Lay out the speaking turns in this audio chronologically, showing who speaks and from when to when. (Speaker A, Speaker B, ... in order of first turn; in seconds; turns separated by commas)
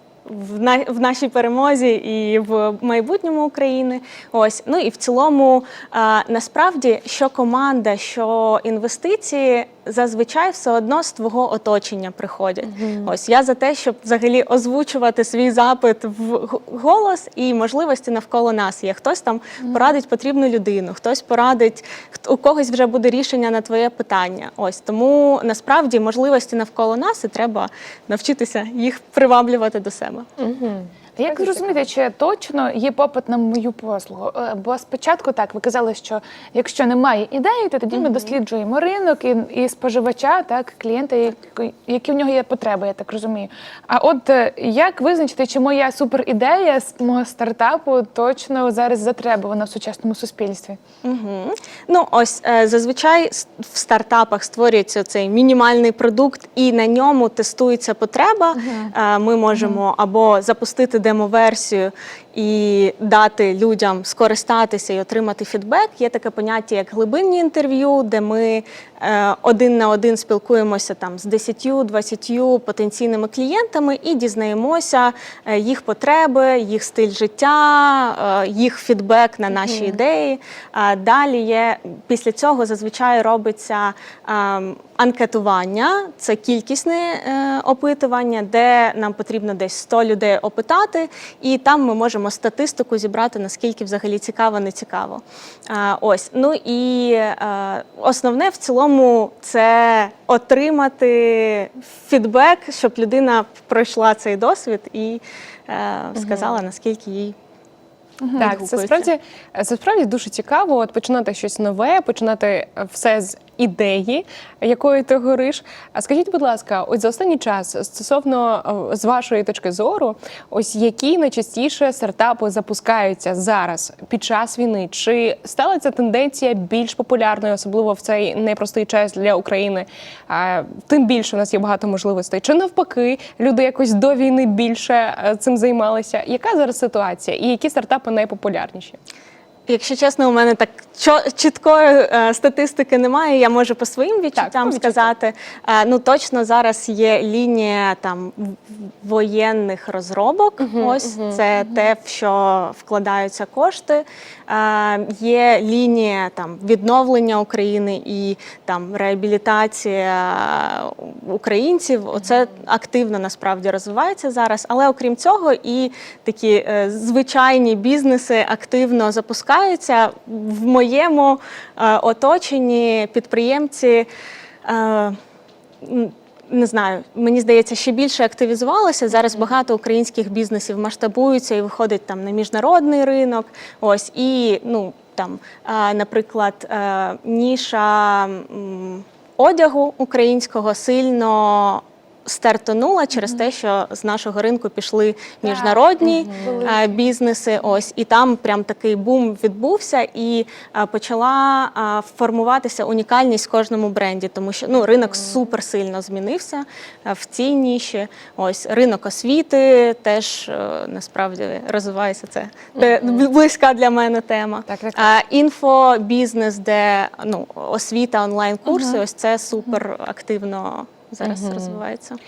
Speaker A: 0.2-30.2, Speaker B: 12.7-13.1, Speaker B: 30.4-31.9, Speaker C: 31.2-50.8, Speaker A: 37.9-38.4, Speaker A: 51.0-107.3, Speaker C: 58.6-58.9, Speaker B: 79.5-80.0, Speaker B: 106.2-106.6, Speaker A: 108.3-109.1, Speaker B: 108.4-139.0, Speaker A: 139.7-174.1, Speaker B: 144.3-145.1, Speaker B: 150.6-151.4, Speaker A: 174.6-175.2, Speaker A: 175.8-222.2, Speaker C: 195.4-197.0, Speaker B: 196.1-196.6, Speaker B: 212.8-213.2, Speaker B: 214.7-215.1, Speaker C: 218.7-219.0, Speaker B: 221.2-221.8